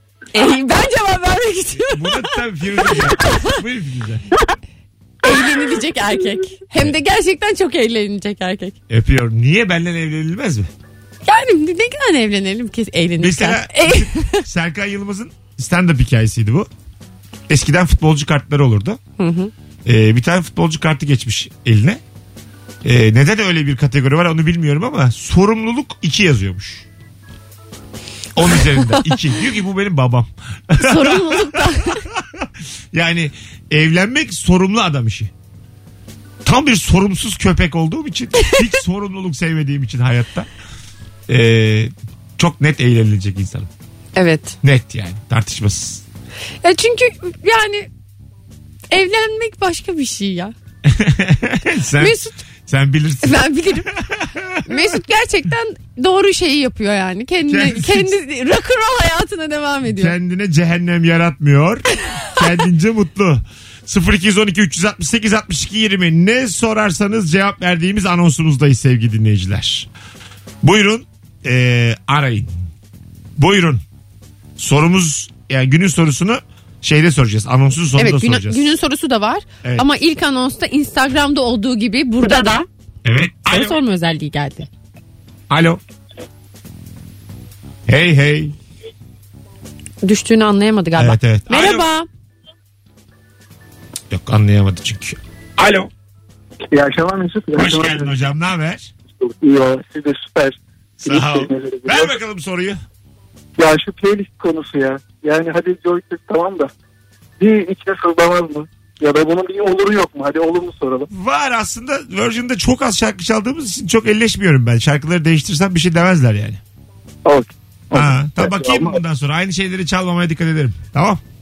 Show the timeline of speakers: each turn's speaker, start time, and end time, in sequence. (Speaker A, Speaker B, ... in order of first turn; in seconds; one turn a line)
Speaker A: 0.3-2.3
Speaker B: 1.7-4.2
Speaker A: 3.2-3.5
Speaker A: 5.2-8.7
Speaker B: 8.9-10.7
Speaker A: 11.2-14.4
Speaker B: 13.2-16.7
Speaker B: 17.5-19.0
Speaker A: 19.2-19.5
Speaker B: 19.8-22.0
Speaker B: 22.8-26.9
Speaker B: 28.3-35.3
Speaker A: 30.8-32.0
Speaker B: 36.4-40.5
Speaker B: 41.3-43.7
Speaker A: 44.1-44.6
Speaker B: 44.6-46.0
Speaker A: 46.6-47.9
Speaker A: 48.9-50.5
Speaker B: 50.8-55.0
Speaker A: 52.0-52.4
Speaker A: 53.2-53.9
Speaker A: 54.6-60.1
Speaker B: 57.5-58.1
Speaker B: 59.9-69.9
Speaker B: 70.6-72.5
Speaker B: 73.4-73.8
Speaker B: 74.6-78.7
Speaker A: 78.0-82.6
Speaker B: 83.0-83.7
Speaker A: 83.5-84.7
Speaker B: 85.5-85.8
Speaker B: 87.9-88.5
Speaker A: 90.0-92.1
Speaker B: 91.0-91.8
Speaker B: 94.1-95.9
Speaker B: 97.5-98.9
Speaker C: 99.2-100.5
Speaker B: 101.0-102.8
Speaker C: 103.6-106.7
Speaker C: 107.4-111.1
Speaker B: 111.1-116.6
Speaker B: 117.9-121.2